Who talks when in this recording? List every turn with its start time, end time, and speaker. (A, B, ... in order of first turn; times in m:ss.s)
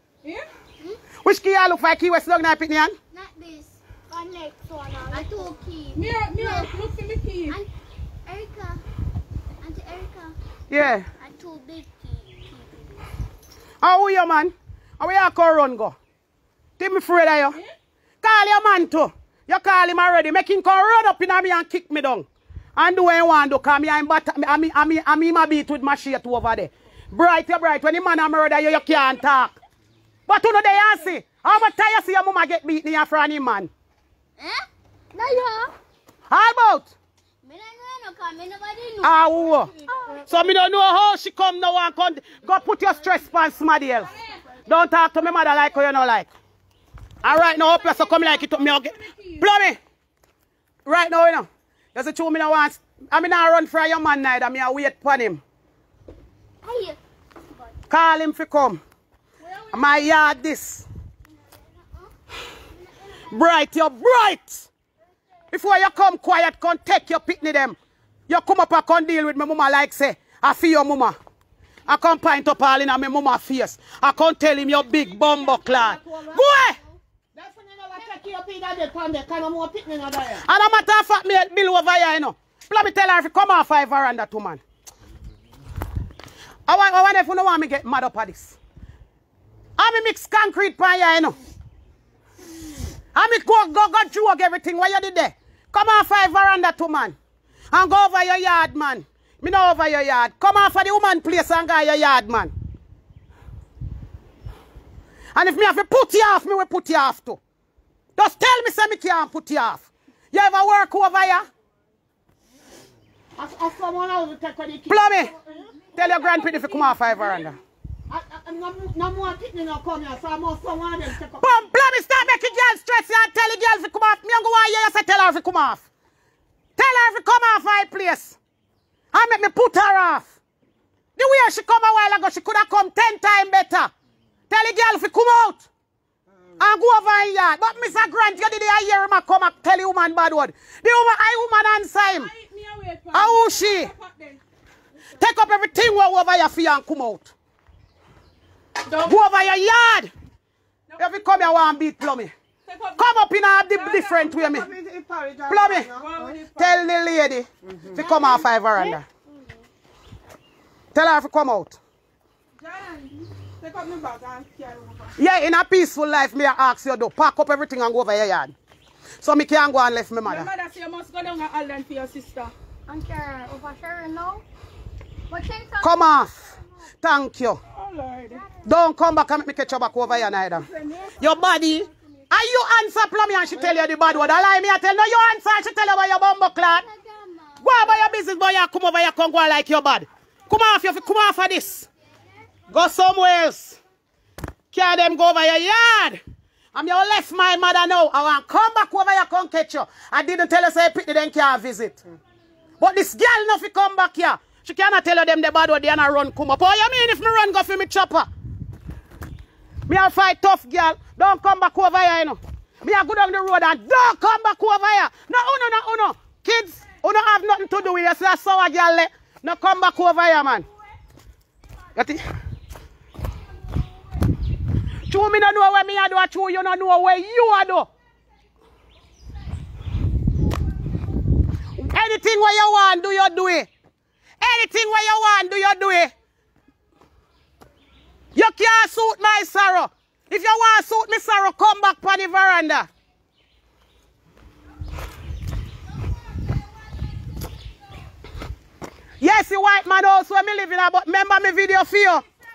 0:00.2-0:00.5 A
0:01.2-0:03.0 B
0:03.1-0:06.7 C
0:05.2-0:05.5 D
0:05.9-0:07.6 A
0:08.3-0:08.8 C
0:09.6-0:10.4 C
0:10.7-0:11.1 B
0:11.2-0:13.0 C
0:13.8-0:16.0 B
0:16.8-0:17.6 B
0:18.2-0:29.6 B
0:30.3-0:33.7 B
0:34.4-0:35.7 C
0:36.3-0:36.9 B
0:37.4-0:39.4 C
0:39.0-0:39.7 B
0:39.4-0:40.3 D
0:39.9-0:40.4 C
0:40.3-0:44.1 B
0:44.0-0:44.4 A
0:44.0-0:44.7 C
0:44.7-0:46.3 B
0:47.2-0:49.5 A
0:47.2-0:49.8 B
0:50.9-0:55.4 B
0:56.6-0:57.0 C
0:57.9-0:58.8 B
0:59.4-1:00.1 A
0:59.7-1:00.9 B
1:01.3-1:02.1 C
1:02.7-1:03.3 C
1:03.3-1:04.7 B
1:05.5-1:07.8 B
1:08.3-1:11.2 B
1:11.9-1:16.8 B
1:15.1-1:16.5 D
1:16.7-1:17.0 C
1:17.4-1:20.4 D
1:20.4-1:24.6 B
1:26.7-1:28.6 B
1:29.8-1:31.4 B
1:33.1-1:37.2 B
1:37.7-1:42.5 B
1:45.3-1:47.4 B
1:48.2-1:51.5 B
1:53.4-1:55.9 D
1:54.9-1:55.3 B
1:56.0-1:57.6 B
1:56.0-1:57.5 A
1:58.1-2:01.5 D
2:01.4-2:05.8 B
2:06.8-2:08.4 B
2:09.1-2:10.3 B
2:11.2-2:13.9 B
2:14.5-2:15.7 B
2:16.6-2:22.3 B
2:22.0-2:24.4 A
2:23.1-2:23.9 B
2:25.2-2:27.3 B
2:28.9-2:29.1 A
2:29.0-2:30.1 B
2:30.9-2:31.7 A
2:31.0-2:32.3 B
2:32.6-2:33.1 A
2:33.0-2:34.7 B
2:33.7-2:34.4 A
2:34.4-2:36.4 D
2:35.5-2:35.9 B
2:35.9-2:36.9 A
2:36.6-2:39.0 B
2:37.7-2:39.0 D
2:40.9-2:41.8 B
2:42.6-2:45.2 A
2:45.2-2:48.6 B
2:49.2-2:50.5 B
2:50.2-2:52.5 A
2:52.9-2:54.4 C
2:55.3-2:55.9 C
2:55.8-2:56.5 B
2:57.0-2:57.6 B
2:57.7-2:58.5 A
2:58.6-3:00.7 B
3:00.2-3:02.2 A
3:01.2-3:06.8 B
3:06.6-3:08.1 C
3:07.6-3:11.9 B
3:12.1-3:12.5 C
3:12.7-3:13.8 B
3:14.7-3:16.2 B
3:16.7-3:22.0 B
3:22.8-3:28.3 B
3:29.9-3:40.7 B
3:42.0-3:42.2 B
3:43.4-3:44.4 A
3:45.1-3:47.9 B
3:51.8-3:53.7 B
3:54.4-3:56.1 B
3:58.4-4:02.9 B
4:09.2-4:12.2 B